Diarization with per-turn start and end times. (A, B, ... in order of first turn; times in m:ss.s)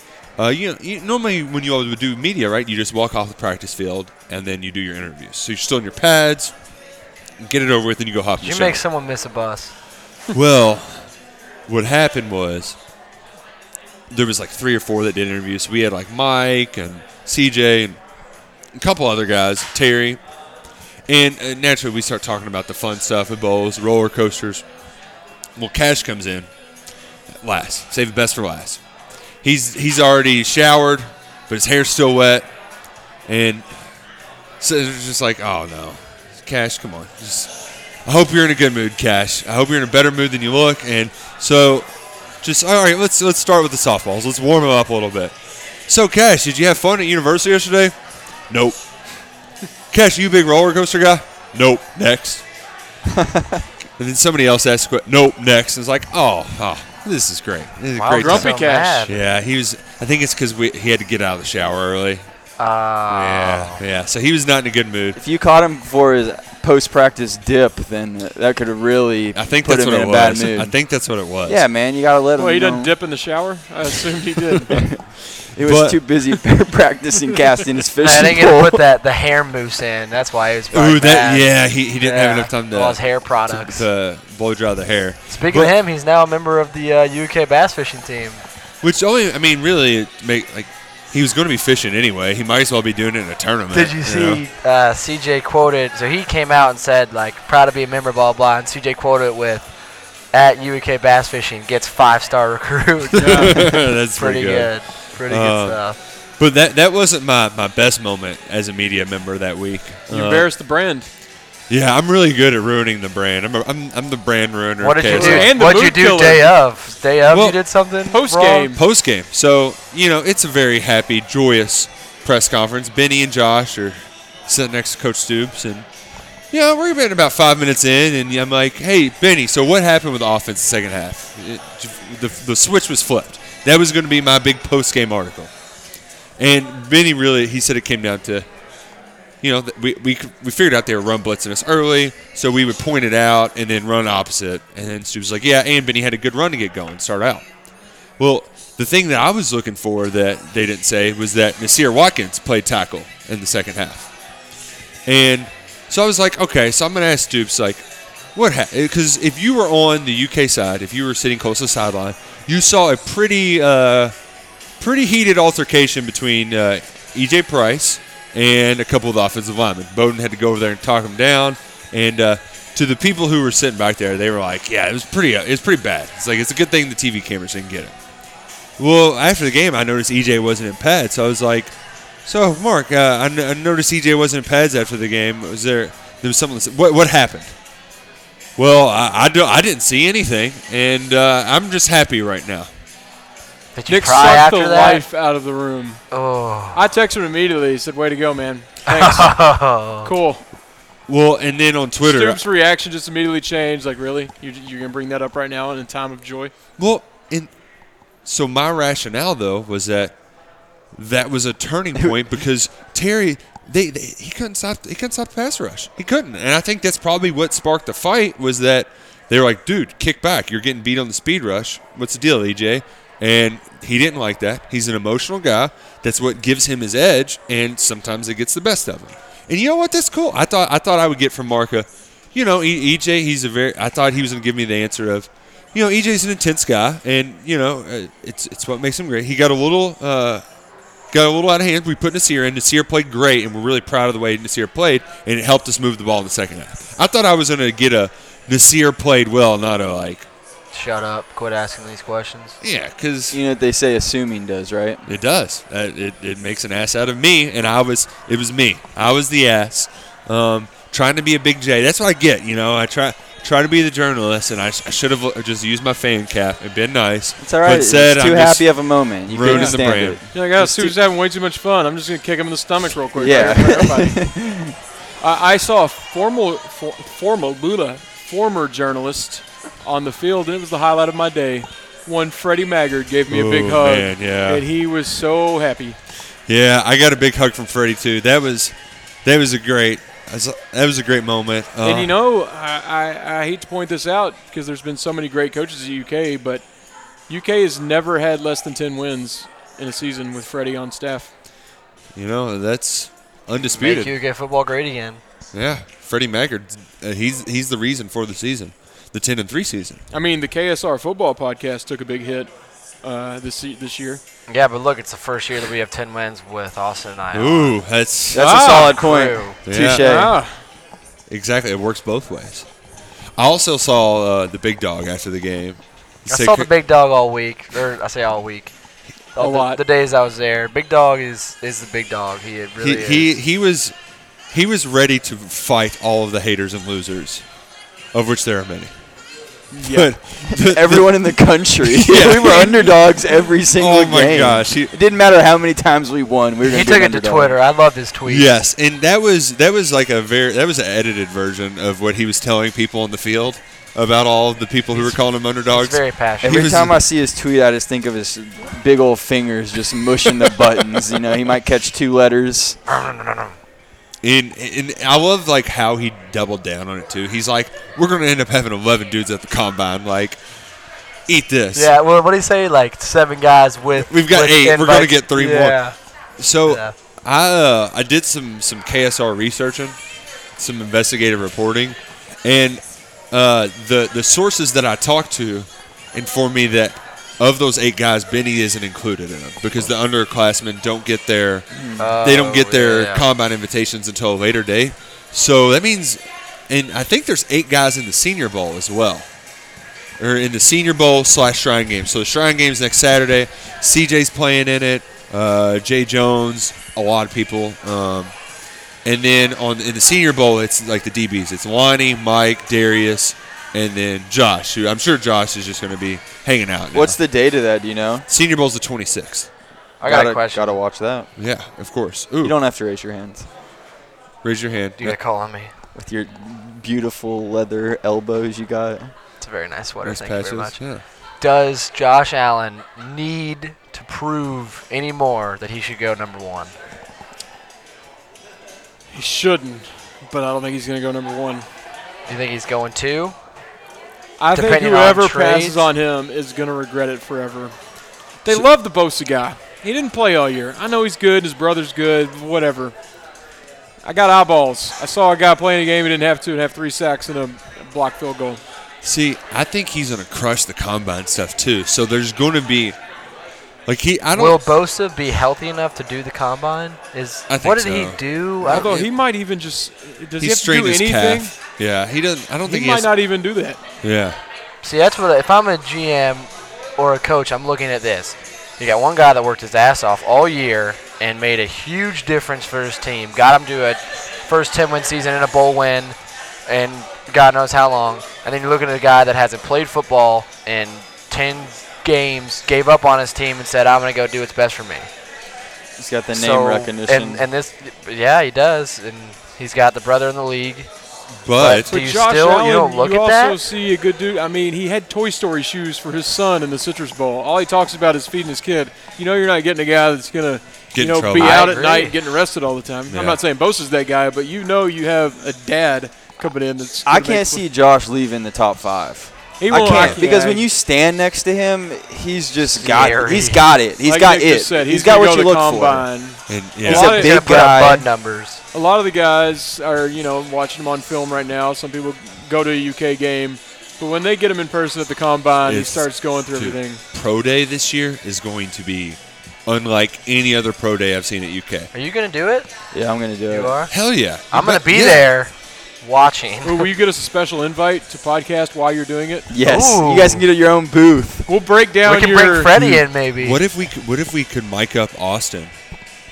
0:00.4-0:06.5 A
0:07.4-0:08.8 A
0:08.4-0:09.7 B
0:10.3-0:11.1 A
0:11.7-0:12.8 A
0:14.1-0:18.0 A
0:18.7-0:20.2 A
0:21.1-0:24.6 A
0:25.6-0:26.5 A
0:27.4-0:28.8 A
0:29.4-0:32.5 A
0:33.3-0:33.6 A
0:34.6-0:37.5 A
0:38.0-0:41.9 A
0:42.4-0:45.3 A
0:45.9-0:47.9 A
0:48.5-0:48.8 A
0:49.9-0:52.4 A
0:53.1-0:53.6 C
0:54.0-0:58.5 A
0:57.9-0:59.2 B
0:58.2-0:59.1 D
0:59.0-1:02.2 A
1:02.6-1:03.8 B
1:03.1-1:05.2 A
1:05.1-1:10.7 C
1:09.3-1:11.6 A
1:11.4-1:12.9 C
1:12.4-1:14.7 D
1:14.7-1:15.0 C
1:15.5-1:18.8 C
1:15.6-1:16.0 A
1:18.0-1:23.8 B
1:20.7-1:25.8 A
1:25.3-1:28.4 B
1:28.8-1:34.4 A
1:33.7-1:39.7 B
1:40.3-1:46.0 B
1:43.1-1:45.8 A
1:43.2-1:43.6 D
1:46.4-1:50.5 A
1:50.1-1:51.1 D
1:51.7-1:55.5 A
1:54.8-1:58.7 B
1:55.1-1:56.5 D
1:57.3-1:57.6 A
1:58.1-1:58.8 D
1:58.7-2:05.9 A
2:06.5-2:15.5 A
2:16.4-2:18.5 A
2:19.4-2:27.4 A
2:28.2-2:34.1 A
2:35.0-2:44.1 A
2:44.8-2:58.0 A
2:58.8-3:01.7 A
3:02.2-3:07.5 A
3:08.6-3:12.7 A
3:13.7-3:15.0 B
3:13.9-3:16.0 D
3:16.1-3:16.8 B
3:16.7-3:19.4 D
3:18.9-3:20.1 B
3:20.0-3:20.4 D
3:21.1-3:22.4 A
3:22.0-3:26.5 D
3:26.8-3:27.5 A
3:28.2-3:30.1 A
3:30.9-4:00.4 A
4:01.1-4:10.3 A
4:10.7-4:12.6 B
4:12.6-4:13.4 A
4:13.3-4:15.0 C
4:15.0-4:28.7 A
4:27.4-4:30.9 C
4:29.3-4:30.2 A
4:29.4-4:29.8 D
4:30.3-4:34.2 D
4:33.2-4:34.7 C
4:35.2-4:46.0 D
4:43.3-4:44.6 A
4:46.5-4:52.1 A
4:51.8-4:56.6 D
4:57.3-5:01.3 D
5:02.1-5:04.1 A
5:03.6-5:05.2 B
5:05.5-5:10.0 A
5:10.1-5:12.5 D
5:13.0-5:14.2 D
5:14.5-5:17.8 B
5:17.3-5:18.6 A
5:18.3-5:20.4 C
5:18.3-5:19.0 D
5:18.6-5:19.6 B
5:19.6-5:20.1 A
5:19.8-5:20.6 D
5:21.3-5:22.7 A
5:23.4-5:26.7 A
5:26.3-5:28.7 B
5:29.4-5:33.3 B
5:29.4-5:29.8 D
5:32.8-5:33.9 A
5:34.5-5:37.4 A
5:38.1-5:38.9 A
5:39.7-5:40.1 D
5:39.8-5:42.9 A
5:40.5-5:47.6 C
5:43.7-5:44.9 A
5:46.6-5:48.5 B
5:48.3-5:57.0 A
5:54.9-5:56.7 B
5:56.4-6:02.8 C
6:02.9-6:03.6 B
6:04.2-6:10.4 A
6:11.3-6:11.9 A
6:11.7-6:16.0 B
6:14.0-6:15.8 A
6:16.4-6:20.0 A
6:16.6-6:16.9 B
6:20.6-6:31.6 A
6:31.7-6:32.1 C
6:32.0-6:33.3 B
6:32.2-6:39.3 A
6:40.2-6:48.3 A
6:49.0-6:57.2 A
6:56.9-6:58.2 C
6:58.3-6:59.5 A
7:00.0-7:00.8 B
7:00.0-7:01.3 C
7:01.4-7:02.6 A
7:02.4-7:03.5 C
7:04.4-7:05.2 A
7:05.0-7:05.7 B
7:05.9-7:09.1 C
7:09.4-7:10.8 B
7:10.0-7:11.0 A
7:11.4-7:16.7 B
7:19.1-7:21.6 D
7:22.3-7:23.3 B
7:24.4-7:27.7 D
7:24.5-7:25.9 B
7:28.4-7:32.9 D
7:34.0-7:38.6 D
7:39.0-7:43.0 A
7:43.9-7:44.6 A
7:44.3-7:48.9 B
7:47.5-7:49.1 A
7:48.6-7:51.5 D
7:50.4-7:53.1 A
7:52.6-7:53.8 D
7:54.0-7:54.4 A
7:54.8-8:06.2 B
8:06.7-8:15.1 B
8:16.0-8:17.4 C
8:16.3-8:20.9 B
8:21.4-8:21.9 A
8:21.6-8:23.6 B
8:21.9-8:37.6 D
8:30.9-8:31.7 A
8:31.3-8:32.2 B
8:33.1-8:33.4 A
8:37.0-8:46.1 C
8:39.6-8:40.6 D
8:39.8-8:40.2 A
8:42.7-8:43.6 B
8:44.0-8:47.4 D
8:46.5-8:47.1 A
8:46.9-8:48.1 C
8:46.9-8:48.6 B
8:48.7-8:57.0 D
8:55.6-9:01.9 A
9:01.9-9:02.7 B
9:02.9-9:03.7 C
9:03.5-9:03.9 B
9:03.9-9:05.3 A
9:04.5-9:06.9 B
9:06.6-9:09.5 D
9:09.5-9:11.5 C
9:09.6-9:10.4 B
9:11.5-9:12.8 D
9:12.0-9:13.6 B
9:12.8-9:15.7 A